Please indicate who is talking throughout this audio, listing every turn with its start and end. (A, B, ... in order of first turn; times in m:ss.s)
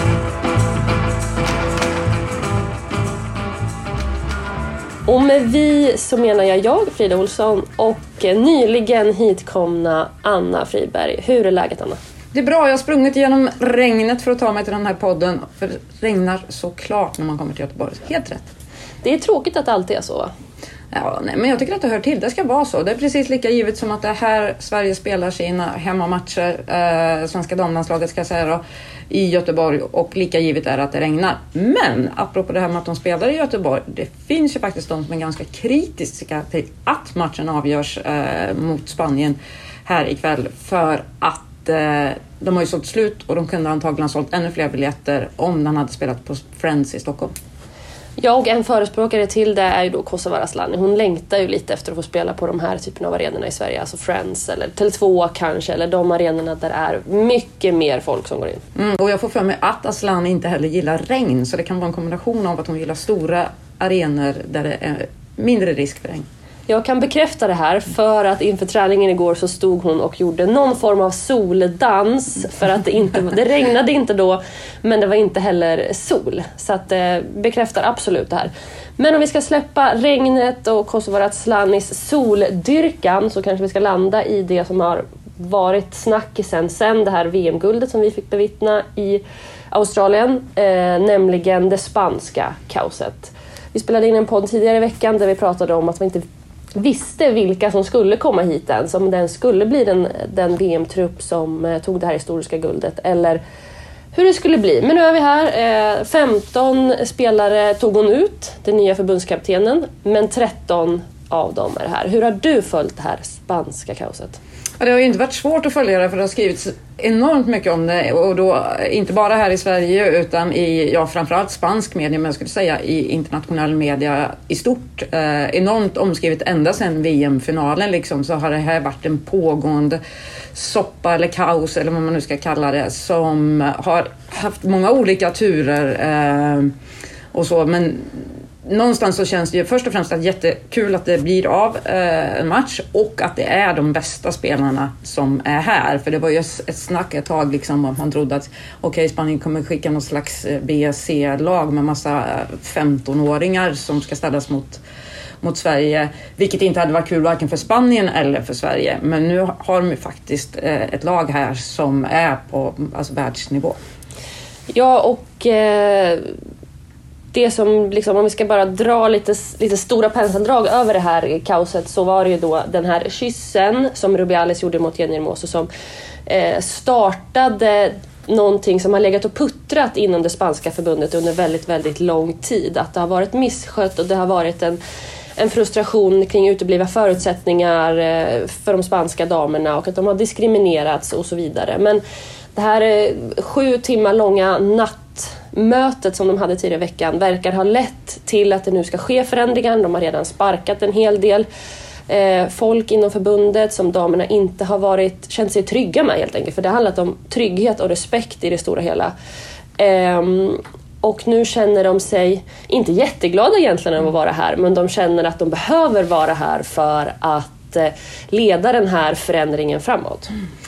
0:05.0-0:12.0 A
0:12.3-0:18.4 B
0:19.0-0:20.3 A
0:20.9-0:47.3 B
0:48.2-0:58.6 A
0:58.8-1:06.2 B
1:06.7-1:43.4 A
1:44.1-1:54.4 A
1:54.8-2:10.0 B
2:10.5-2:16.7 B
2:17.3-2:34.8 B
2:35.4-2:43.8 B
2:44.7-2:46.3 A
2:47.3-2:55.7 A
2:56.3-3:04.8 A
3:05.4-3:12.0 A
3:12.5-3:21.5 A
3:22.1-3:29.1 A
3:29.8-3:40.3 A